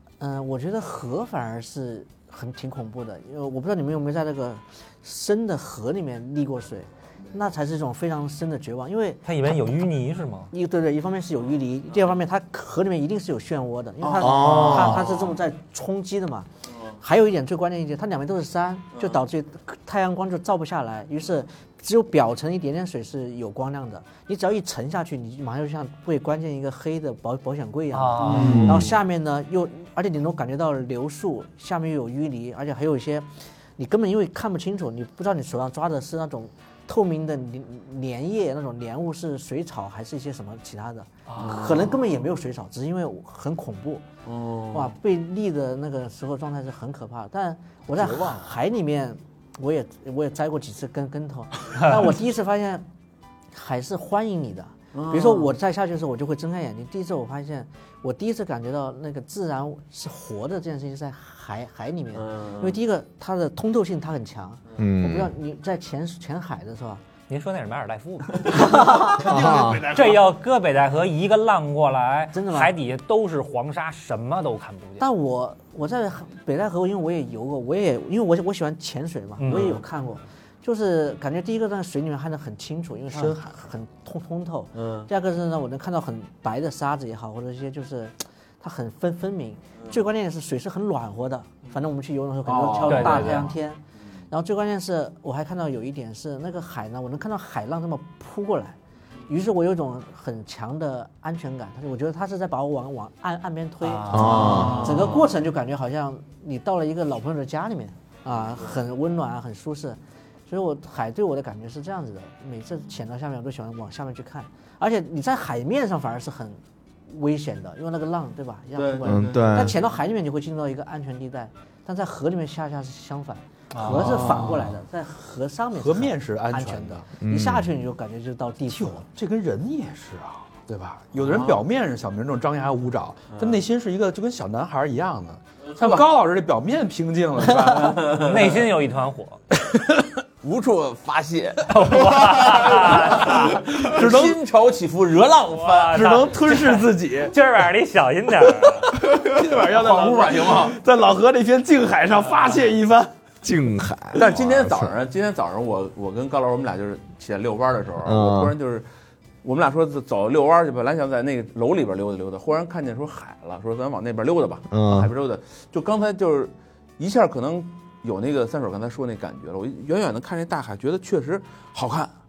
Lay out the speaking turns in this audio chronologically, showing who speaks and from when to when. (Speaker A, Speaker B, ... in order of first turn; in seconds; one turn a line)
Speaker A: 0.2-9.2
Speaker B: 9.2-10.5
Speaker A: 10.5-16.5
Speaker C: 14.0-15.3
Speaker D: 14.2-15.1
Speaker A: 17.0-33.3
Speaker B: 27.9-28.8
Speaker C: 28.3-28.8
Speaker D: 28.3-28.9
Speaker A: 33.8-44.1
Speaker E: 41.3-41.9
Speaker C: 41.4-42.0
Speaker C: 44.2-44.9
Speaker A: 44.7-52.9
Speaker E: 48.0-48.5
Speaker A: 53.5-67.0
Speaker C: 54.9-55.5
Speaker C: 62.2-62.8
Speaker D: 64.8-65.3
Speaker B: 67.3-68.9
Speaker E: 68.5-70.3
Speaker D: 69.2-69.9
Speaker B: 69.9-75.0
Speaker A: 72.3-72.7
Speaker A: 75.0-98.8
Speaker B: 79.4-79.8
Speaker C: 84.8-85.1
Speaker C: 92.4-93.4
Speaker B: 92.9-93.5
Speaker A: 99.3-129.1
Speaker C: 104.0-105.3
Speaker D: 104.1-104.9
Speaker C: 118.8-119.7
Speaker D: 119.0-119.8
Speaker C: 123.7-124.7
Speaker E: 123.8-124.5
Speaker E: 125.7-127.0
Speaker D: 127.2-127.7
Speaker E: 128.7-138.2
Speaker C: 131.3-131.6
Speaker C: 135.7-136.1
Speaker C: 137.7-138.7
Speaker B: 138.1-139.4
Speaker C: 140.4-146.0
Speaker B: 141.7-143.7
Speaker E: 143.4-144.4
Speaker B: 145.5-149.0
Speaker E: 145.9-147.3
Speaker E: 148.9-153.1
Speaker C: 149.5-150.8
Speaker D: 153.4-154.9
Speaker C: 154.1-158.9
Speaker D: 158.0-158.5
Speaker C: 159.4-172.1
Speaker D: 164.7-165.1